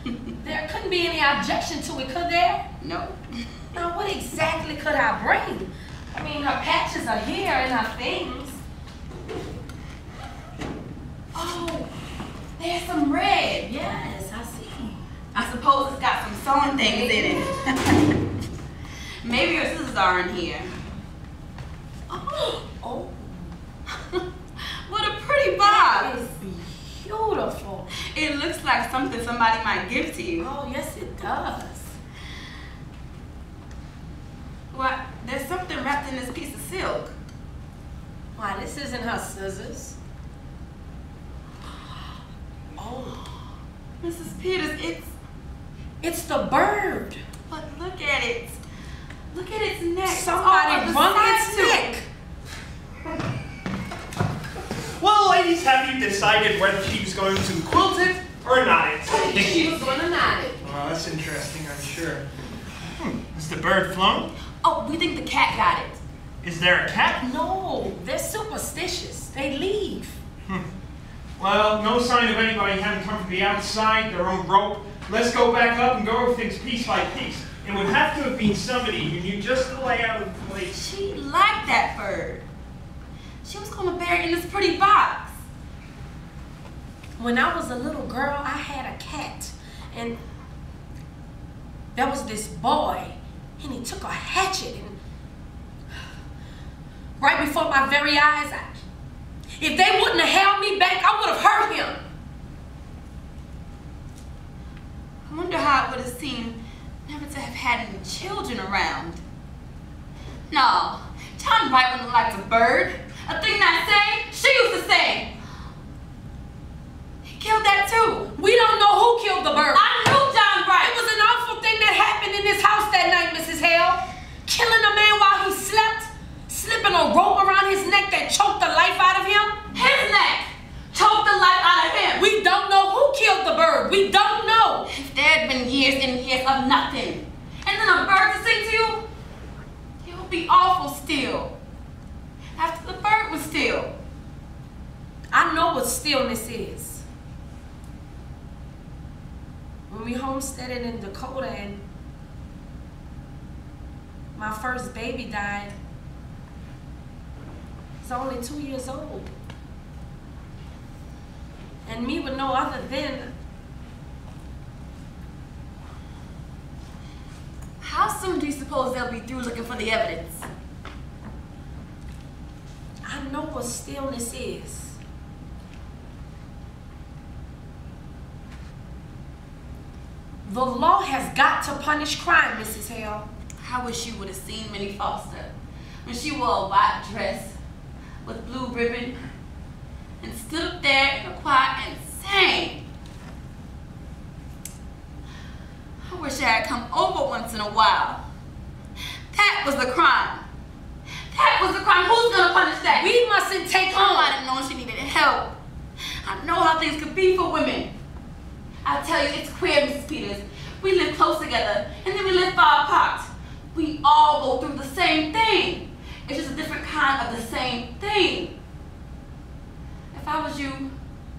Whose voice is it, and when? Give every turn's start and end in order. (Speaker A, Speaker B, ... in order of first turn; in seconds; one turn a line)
Speaker A: 0.4-2.7
Speaker B: 2.8-3.6
Speaker A: 3.7-8.6
Speaker B: 11.3-11.9
Speaker B: 12.6-14.0
Speaker A: 13.8-15.0
Speaker B: 15.3-18.0
Speaker A: 16.8-17.4
Speaker B: 19.2-20.7
Speaker A: 22.1-23.5
Speaker B: 24.8-26.2
Speaker A: 25.6-27.9
Speaker B: 28.0-30.5
Speaker A: 30.4-31.9
Speaker B: 34.7-37.1
Speaker A: 38.4-40.0
Speaker A: 42.8-43.2
Speaker B: 44.0-45.1
Speaker A: 46.0-47.2
Speaker B: 47.5-48.6
Speaker B: 49.3-51.9
Speaker A: 50.1-52.1
Speaker C: 55.0-59.7
Speaker A: 59.1-60.6
Speaker C: 60.6-62.2
Speaker C: 63.0-64.3
Speaker B: 64.6-66.0
Speaker C: 66.4-67.2
Speaker A: 67.2-70.2
Speaker C: 71.4-80.8
Speaker B: 80.7-82.4
Speaker B: 83.4-85.3
Speaker A: 87.2-90.2
Speaker A: 91.9-95.0
Speaker A: 97.2-98.8
Speaker A: 99.6-102.0
Speaker B: 105.3-109.2
Speaker B: 110.5-115.3
Speaker B: 117.2-118.3
Speaker A: 118.3-120.0
Speaker B: 119.7-120.9
Speaker A: 120.8-129.6
Speaker B: 129.7-132.2
Speaker A: 132.1-134.9
Speaker B: 134.9-139.0
Speaker B: 140.0-141.5
Speaker B: 142.6-143.9
Speaker A: 145.3-147.0
Speaker A: 149.9-151.8
Speaker A: 154.3-155.7
Speaker A: 158.0-159.3
Speaker A: 161.8-163.3
Speaker B: 167.8-170.5
Speaker A: 173.0-175.0
Speaker A: 180.4-183.2
Speaker B: 183.6-185.5
Speaker B: 186.0-187.6
Speaker B: 188.2-189.2
Speaker B: 190.2-192.8
Speaker B: 196.0-198.2
Speaker B: 199.3-200.4
Speaker B: 201.3-203.1
Speaker A: 202.9-204.3
Speaker B: 203.9-207.9
Speaker B: 208.8-218.5
Speaker B: 220.1-220.9